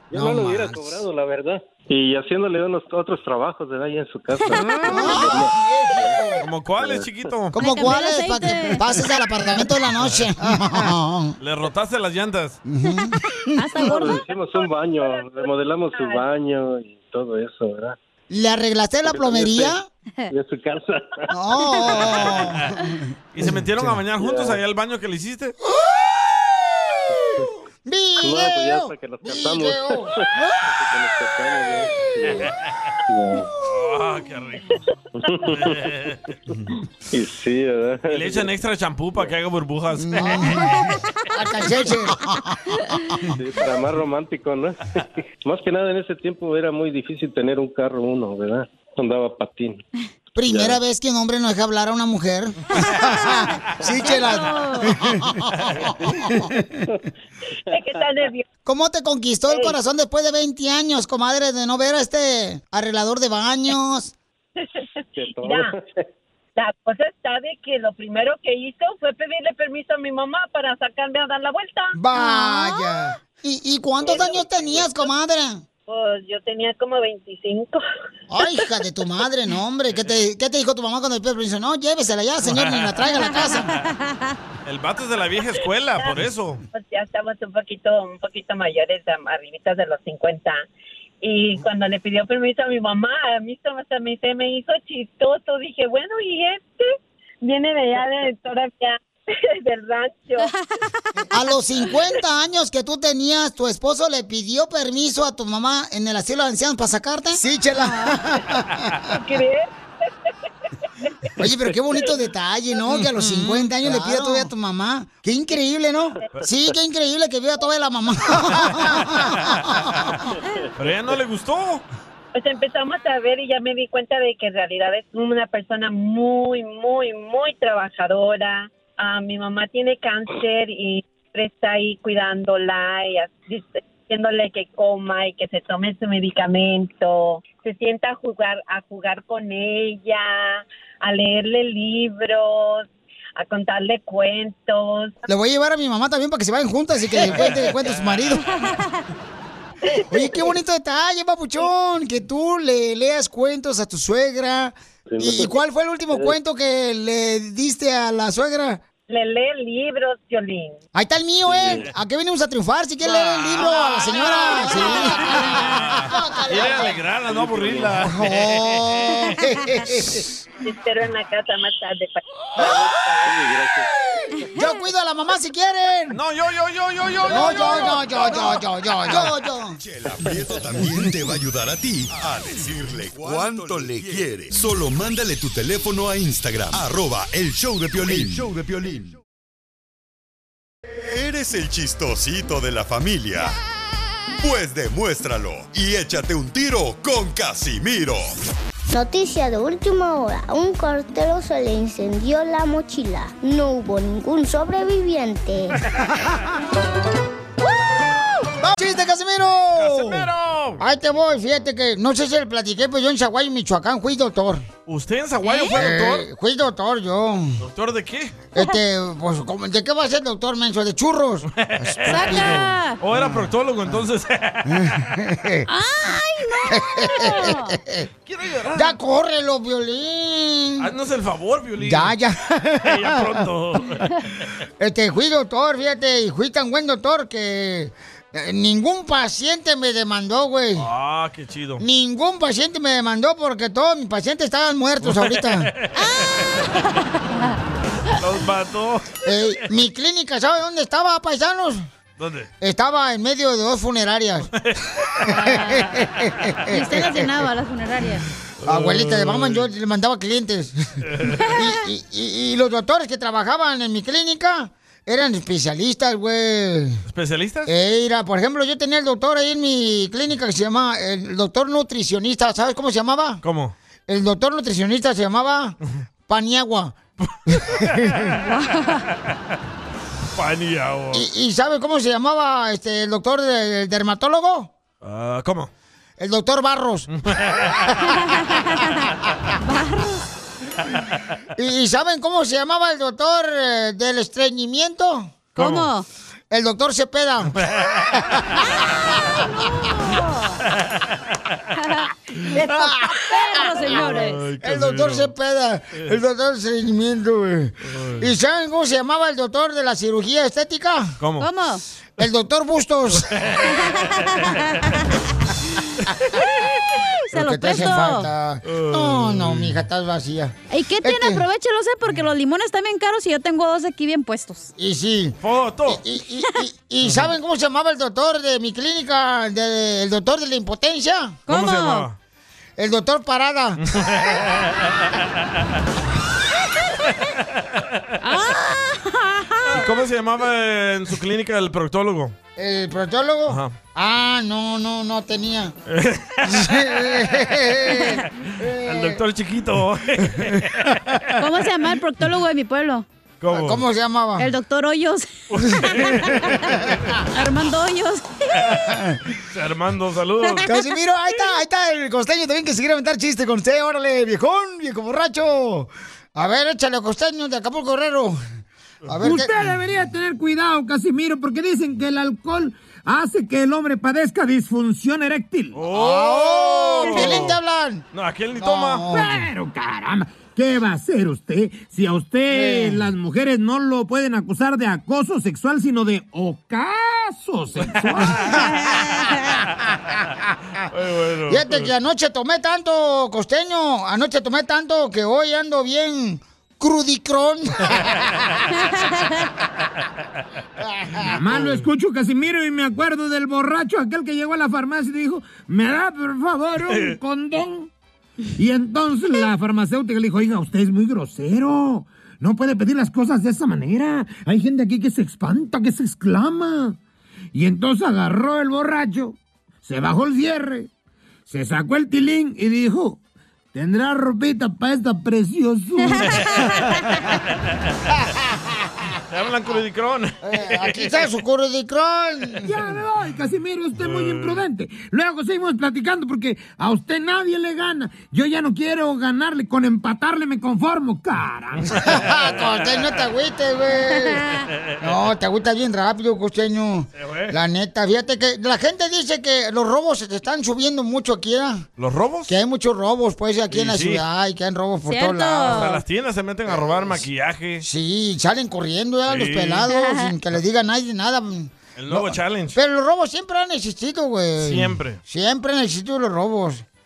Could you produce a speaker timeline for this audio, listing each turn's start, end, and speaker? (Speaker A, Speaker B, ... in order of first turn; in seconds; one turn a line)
Speaker A: 0.1-6.2
Speaker B: 0.1-1.0
Speaker C: 4.5-5.3
Speaker B: 4.8-6.5
Speaker D: 6.4-7.5
Speaker A: 6.8-7.0
Speaker B: 7.5-11.3
Speaker C: 7.5-9.2
Speaker D: 10.0-10.3
Speaker D: 11.4-12.6
Speaker B: 12.7-13.8
Speaker C: 12.8-14.2
Speaker A: 13.8-17.9
Speaker E: 14.0-16.2
Speaker B: 18.3-19.9
Speaker A: 19.0-19.8
Speaker A: 20.3-21.2
Speaker B: 21.3-24.0
Speaker D: 22.0-22.6
Speaker D: 23.3-25.6
Speaker A: 24.2-24.6
Speaker B: 25.7-30.7
Speaker A: 28.2-32.5
Speaker B: 31.8-32.2
Speaker A: 33.1-33.5
Speaker D: 33.6-34.8
Speaker A: 35.1-35.8
Speaker D: 35.5-36.7
Speaker A: 37.1-38.5
Speaker D: 38.1-40.9
Speaker B: 40.0-40.8
Speaker B: 41.3-43.4
Speaker A: 43.3-49.8
Speaker B: 50.3-56.8
Speaker A: 50.4-50.8
Speaker C: 52.9-54.9
Speaker E: 57.7-58.4
Speaker B: 58.6-64.1
Speaker E: 59.5-59.8
Speaker E: 64.5-65.7
Speaker A: 65.2-66.0
Speaker E: 66.5-72.0
Speaker B: 71.9-75.6
Speaker C: 72.1-72.8
Speaker A: 74.0-74.9
Speaker E: 75.9-77.8
Speaker B: 78.3-83.7
Speaker D: 82.4-82.9
Speaker D: 84.6-86.6
Speaker E: 86.7-90.6
Speaker E: 91.2-100.5
Speaker C: 100.4-101.2
Speaker B: 101.3-109.1
Speaker E: 109.1-110.3
Speaker B: 111.4-120.3
Speaker D: 118.6-119.7
Speaker D: 120.8-121.8
Speaker E: 122.3-145.2
Speaker B: 145.3-148.5
Speaker E: 149.8-150.5
Speaker B: 150.1-158.8
Speaker A: 155.1-155.6
Speaker E: 159.1-160.8
Speaker B: 160.9-167.0
Speaker A: 161.4-161.9
Speaker D: 163.2-169.1
Speaker C: 164.3-165.6
Speaker A: 167.2-167.9
Speaker B: 168.0-170.4
Speaker E: 170.6-173.3
Speaker A: 172.6-173.9
Speaker B: 172.6-173.0
Speaker B: 174.3-176.2
Speaker D: 176.1-178.5
Speaker B: 177.3-179.8
Speaker F: 179.8-189.1
Speaker A: 180.2-180.5
Speaker F: 191.0-193.5
Speaker F: 194.4-198.3
Speaker G: 198.9-205.8
Speaker B: 208.6-214.7
Speaker D: 209.8-210.8
Speaker D: 214.9-216.3
Speaker C: 215.4-215.8
Speaker B: 215.7-217.6
Speaker D: 217.6-218.3
Speaker B: 218.5-223.5
Speaker D: 221.5-225.1
Speaker C: 222.1-223.0
Speaker B: 224.7-225.7
Speaker C: 225.7-227.8
Speaker B: 226.7-228.1
Speaker D: 228.2-228.9
Speaker B: 228.7-230.9
Speaker D: 230.8-232.1
Speaker B: 231.8-233.5
Speaker D: 232.8-234.3
Speaker B: 234.8-240.9
Speaker D: 240.8-241.8
Speaker B: 241.8-245.7
Speaker D: 245.0-246.6
Speaker C: 245.9-246.9
Speaker D: 248.1-249.1
Speaker B: 249.2-251.9
Speaker D: 252.2-252.5
Speaker B: 252.6-254.5
Speaker C: 255.2-256.0
Speaker B: 255.3-257.3
Speaker C: 256.7-258.2
Speaker D: 258.6-259.7
Speaker B: 258.6-260.8
Speaker D: 261.1-261.5
Speaker B: 261.5-267.0
Speaker D: 267.1-267.7
Speaker B: 267.6-273.4
Speaker D: 273.4-273.7
Speaker B: 274.1-275.8
Speaker B: 276.3-276.9
Speaker B: 277.5-278.4
Speaker D: 277.6-278.5
Speaker D: 280.3-281.2
Speaker B: 281.1-284.7
Speaker D: 285.0-285.7
Speaker B: 286.2-287.1
Speaker D: 287.2-287.9
Speaker C: 288.3-288.9
Speaker C: 289.6-290.3
Speaker B: 291.6-295.3
Speaker D: 295.6-295.9
Speaker C: 295.6-296.0
Speaker B: 296.5-298.7
Speaker D: 297.6-298.3
Speaker C: 299.4-300.5
Speaker C: 302.5-304.4
Speaker B: 302.6-304.1
Speaker D: 304.0-305.3
Speaker B: 304.6-311.2
Speaker D: 307.9-308.2
Speaker D: 311.2-311.5
Speaker C: 311.4-311.8
Speaker B: 312.2-313.3
Speaker D: 313.3-314.5
Speaker C: 314.0-314.6
Speaker C: 317.3-318.3
Speaker B: 317.3-321.4
Speaker D: 318.6-319.8
Speaker C: 320.7-324.7
Speaker B: 324.8-331.4
Speaker D: 325.4-326.0
Speaker D: 327.0-327.3
Speaker C: 331.5-332.1
Speaker D: 331.5-332.2
Speaker B: 332.8-334.1
Speaker D: 333.9-334.7
Speaker C: 338.2-339.8
Speaker D: 339.7-342.3
Speaker B: 342.6-345.7
Speaker D: 343.5-343.8
Speaker D: 345.9-347.5
Speaker B: 346.4-349.2
Speaker D: 348.4-351.3
Speaker B: 350.4-350.6
Speaker C: 351.4-353.0
Speaker D: 353.4-353.8
Speaker B: 353.5-354.5
Speaker C: 354.4-356.5
Speaker D: 355.5-357.1
Speaker C: 357.3-358.3
Speaker D: 358.6-360.7
Speaker B: 358.8-359.2
Speaker B: 360.6-368.4
Speaker B: 369.1-369.7
Speaker H: 369.2-375.8
Speaker D: 375.7-377.6
Speaker B: 375.9-378.0
Speaker D: 378.1-379.1
Speaker B: 378.6-379.5
Speaker H: 379.1-388.4
Speaker B: 382.5-383.1
Speaker D: 388.2-389.7
Speaker B: 388.2-388.9
Speaker D: 390.9-391.9
Speaker B: 391.5-398.4
Speaker D: 398.0-398.5
Speaker B: 400.8-401.4
Speaker H: 401.2-407.9
Speaker D: 406.9-407.1
Speaker H: 408.6-417.0
Speaker H: 417.5-420.9
Speaker H: 421.5-423.2
Speaker H: 423.7-426.7
Speaker D: 429.1-431.3
Speaker B: 430.4-432.8
Speaker H: 432.6-441.9
Speaker D: 434.0-434.6
Speaker B: 441.9-451.9
Speaker D: 441.9-442.6
Speaker D: 447.2-447.5
Speaker D: 452.0-452.5
Speaker B: 452.5-455.9
Speaker D: 453.7-454.2
Speaker C: 455.1-456.0
Speaker D: 455.7-457.8
Speaker B: 456.7-457.2
Speaker B: 457.8-466.8
Speaker D: 459.3-459.9
Speaker C: 459.9-460.3
Speaker D: 461.9-462.8
Speaker D: 464.6-465.2